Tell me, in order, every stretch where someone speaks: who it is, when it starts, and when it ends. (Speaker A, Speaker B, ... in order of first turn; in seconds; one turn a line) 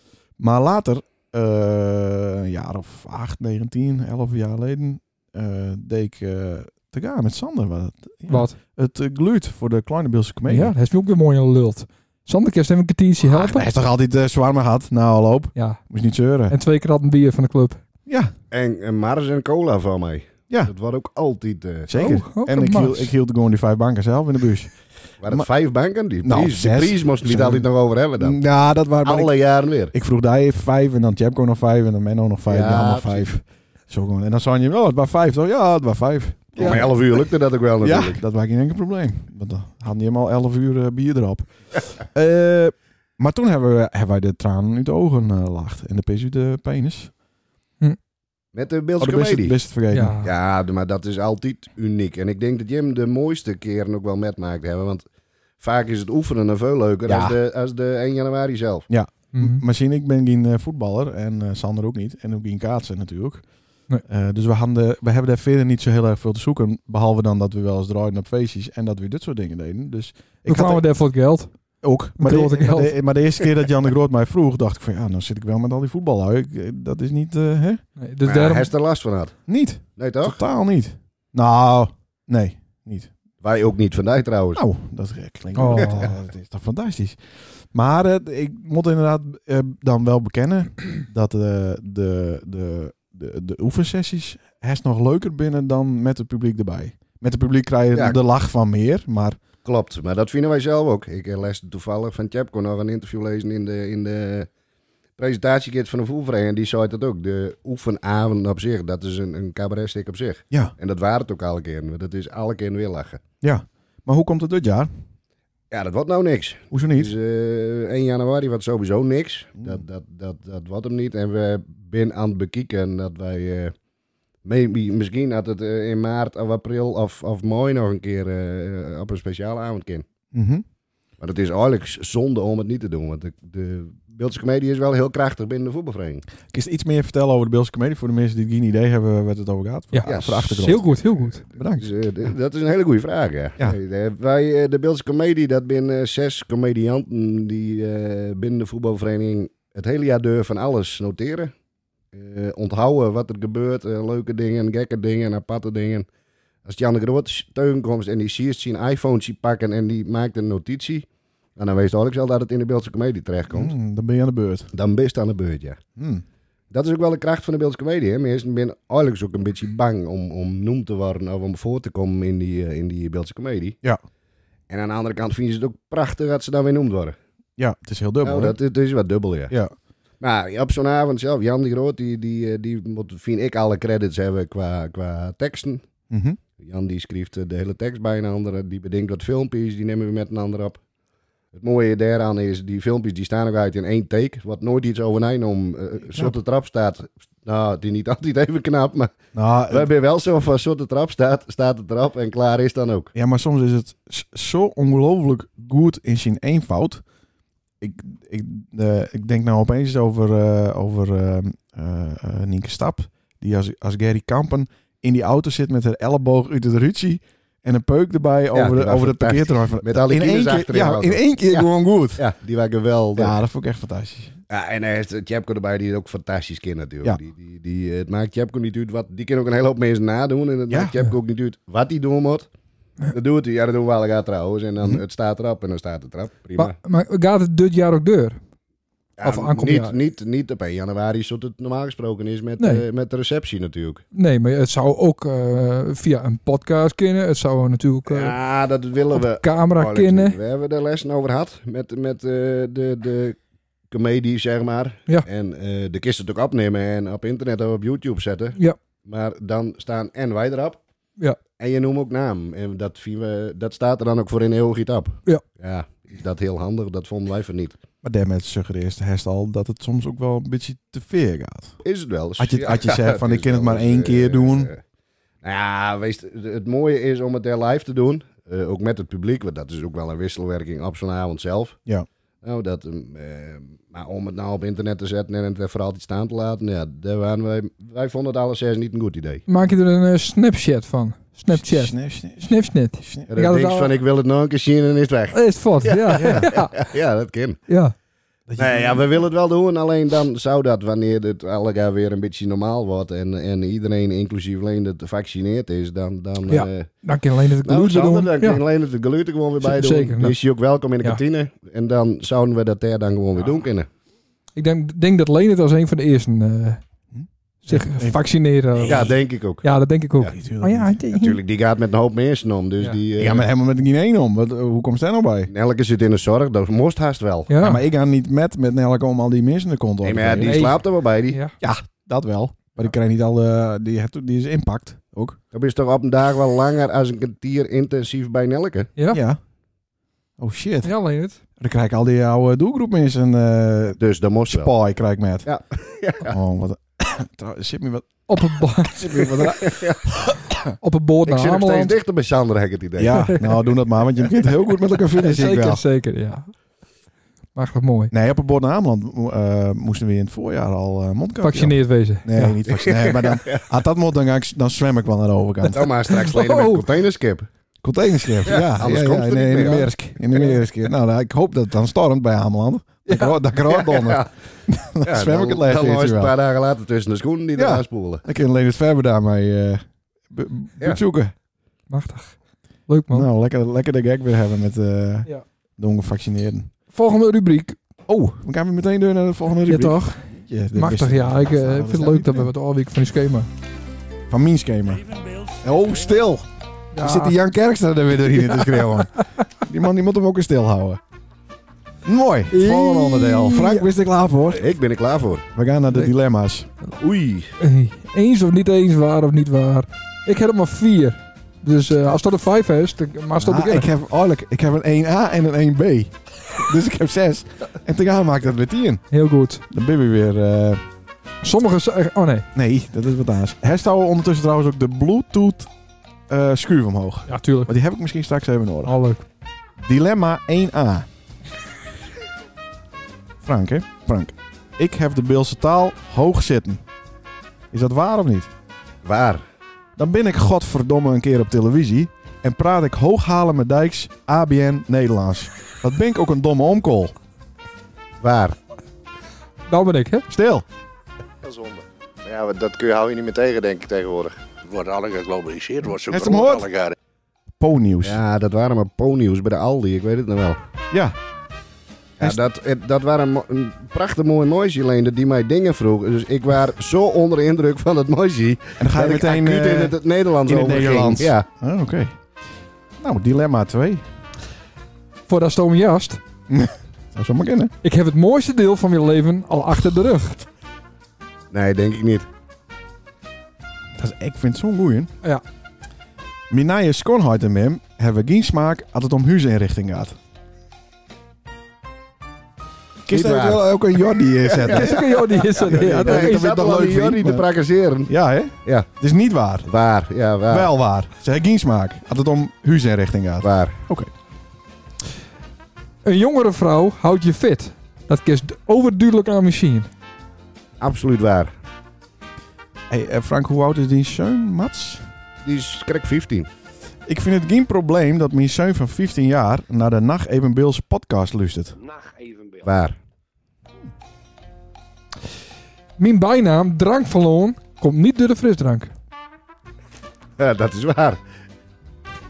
Speaker A: 0.4-10.7
Speaker B: 8.3-8.6
Speaker B: 10.5-13.7
Speaker A: 13.2-16.6
Speaker B: 15.6-15.8
Speaker B: 16.5-17.8
Speaker A: 18.1-18.3
Speaker C: 18.5-21.9
Speaker A: 21.9-24.7
Speaker B: 21.9-23.1
Speaker C: 25.2-28.4
Speaker A: 26.2-27.7
Speaker A: 28.2-29.3
Speaker C: 29.0-29.9
Speaker A: 29.9-37.2
Speaker C: 32.5-33.3
Speaker C: 36.6-38.2
Speaker A: 37.8-47.1
Speaker C: 48.5-49.6
Speaker A: 49.0-50.2
Speaker B: 49.9-50.3
Speaker C: 50.2-55.0
Speaker C: 55.6-58.9
Speaker A: 57.1-57.4
Speaker A: 58.9-63.5
Speaker B: 59.3-59.6
Speaker A: 64.1-70.8
Speaker B: 70.5-71.5
Speaker A: 71.8-77.8
Speaker B: 72.2-72.9
Speaker B: 78.0-78.7
Speaker C: 78.2-79.4
Speaker A: 79.5-83.1
Speaker C: 80.0-80.4
Speaker C: 83.4-84.6
Speaker A: 84.5-87.2
Speaker B: 85.6-86.1
Speaker A: 87.7-99.4
Speaker C: 99.7-104.5
Speaker C: 105.2-113.2
Speaker A: 113.4-114.9
Speaker C: 115.7-123.7
Speaker A: 116.7-117.1
Speaker C: 124.4-130.1
Speaker A: 130.3-130.6
Speaker C: 131.2-136.2
Speaker A: 136.5-140.8
Speaker B: 139.9-141.4
Speaker C: 140.1-140.9
Speaker A: 141.6-141.9
Speaker C: 141.8-151.5
Speaker C: 152.1-156.1
Speaker C: 156.7-161.1
Speaker C: 161.6-163.7
Speaker A: 163.5-164.7
Speaker C: 164.7-165.8
Speaker A: 166.0-166.2
Speaker C: 166.7-173.8
Speaker C: 174.7-177.2
Speaker A: 177.6-178.6
Speaker C: 178.2-179.5
Speaker C: 180.2-185.8
Speaker A: 186.1-186.4
Speaker C: 186.6-190.8
Speaker C: 191.5-199.2
Speaker A: 199.3-199.9
Speaker C: 199.7-203.1
Speaker A: 203.2-207.0
Speaker A: 207.8-222.2
Speaker C: 218.5-223.4
Speaker A: 223.2-224.3
Speaker C: 224.5-232.5
Speaker A: 230.7-230.9
Speaker C: 233.1-236.8
Speaker B: 236.6-238.4
Speaker C: 239.2-244.0
Speaker B: 239.2-240.0
Speaker B: 244.1-248.3
Speaker C: 248.1-253.4
Speaker B: 249.1-250.4
Speaker C: 253.9-260.8
Speaker C: 261.6-267.8
Speaker A: 268.0-271.8
Speaker C: 271.8-274.8
Speaker A: 272.4-274.7
Speaker C: 275.4-281.8
Speaker C: 282.4-289.4
Speaker B: 289.5-293.9
Speaker A: 291.5-293.3
Speaker C: 293.3-297.6
Speaker B: 295.3-296.8
Speaker A: 296.2-296.5
Speaker B: 297.7-297.9
Speaker A: 298.5-299.1
Speaker C: 298.6-306.9
Speaker B: 306.5-308.6
Speaker C: 307.6-313.9
Speaker B: 309.6-310.4
Speaker B: 314.6-316.8
Speaker A: 317.1-318.2
Speaker B: 317.7-321.4
Speaker C: 318.8-319.6
Speaker A: 320.3-321.0
Speaker C: 321.1-323.5
Speaker A: 323.2-325.5
Speaker C: 325.5-327.5
Speaker B: 327.5-327.8
Speaker A: 327.6-330.7
Speaker C: 330.0-331.4
Speaker B: 330.4-331.5
Speaker A: 331.6-335.4
Speaker C: 335.5-338.9
Speaker A: 339.1-339.4
Speaker A: 340.4-340.9
Speaker B: 340.8-341.4
Speaker A: 341.6-344.0
Speaker C: 344.0-344.7
Speaker A: 344.5-345.5
Speaker C: 345.4-346.4
Speaker A: 346.2-350.7
Speaker B: 348.3-349.4
Speaker C: 349.6-350.0
Speaker B: 350.8-351.9
Speaker C: 351.2-353.4
Speaker A: 353.0-355.8
Speaker B: 353.1-353.6
Speaker B: 355.2-356.5
Speaker B: 357.5-358.1
Speaker A: 358.1-365.9
Speaker B: 361.4-362.6
Speaker C: 362.7-363.6
Speaker C: 365.7-367.5
Speaker B: 366.1-366.9
Speaker A: 367.8-376.3
Speaker C: 368.5-370.5
Speaker B: 373.1-373.4
Speaker C: 373.7-374.3
Speaker C: 375.0-378.2
Speaker A: 377.6-381.3
Speaker B: 381.9-382.4
Speaker B: 382.9-383.3
Speaker A: 383.1-386.7
Speaker B: 386.9-387.8
Speaker A: 388.1-392.5
Speaker B: 389.7-390.2
Speaker B: 390.8-393.5
Speaker A: 394.3-396.4
Speaker B: 396.9-397.4
Speaker A: 397.0-401.0
Speaker B: 398.4-399.2
Speaker A: 402.0-404.7
Speaker B: 402.5-403.9
Speaker C: 404.5-405.4
Speaker A: 405.5-406.7
Speaker C: 407.0-407.5
Speaker B: 407.6-413.9
Speaker A: 413.4-419.0
Speaker B: 419.1-419.6
Speaker A: 419.7-420.8
Speaker B: 421.4-422.5
Speaker A: 422.5-425.7
Speaker A: 426.3-428.9
Speaker B: 427.3-427.7
Speaker B: 428.9-429.2
Speaker A: 429.8-431.1
Speaker A: 433.4-436.8
Speaker A: 437.7-438.5
Speaker C: 439.0-439.4
Speaker A: 440.0-447.1
Speaker C: 448.2-448.6
Speaker B: 449.7-450.2
Speaker A: 450.3-450.7
Speaker C: 451.4-454.4
Speaker D: 454.6-456.9
Speaker A: 456.1-456.7
Speaker A: 457.6-458.2
Speaker C: 458.0-460.6
Speaker A: 460.9-461.2
Speaker C: 462.2-471.5
Speaker A: 468.8-472.2
Speaker A: 473.0-474.0
Speaker B: 475.3-476.2
Speaker A: 476.5-477.7
Speaker B: 477.8-480.4
Speaker C: 481.5-482.3
Speaker A: 484.0-485.1
Speaker A: 486.5-490.2
Speaker A: 493.1-497.5
Speaker C: 493.1-493.6
Speaker C: 494.5-498.1
Speaker B: 494.6-496.5
Speaker A: 498.1-499.7
Speaker C: 499.7-500.7
Speaker A: 500.5-504.1
Speaker C: 503.4-503.8
Speaker B: 506.0-509.9
Speaker C: 510.8-511.5
Speaker A: 512.9-515.0
Speaker C: 515.4-516.5
Speaker A: 517.1-521.8
Speaker D: 521.8-522.7
Speaker C: 522.6-523.0
Speaker B: 526.0-528.9
Speaker C: 530.4-531.2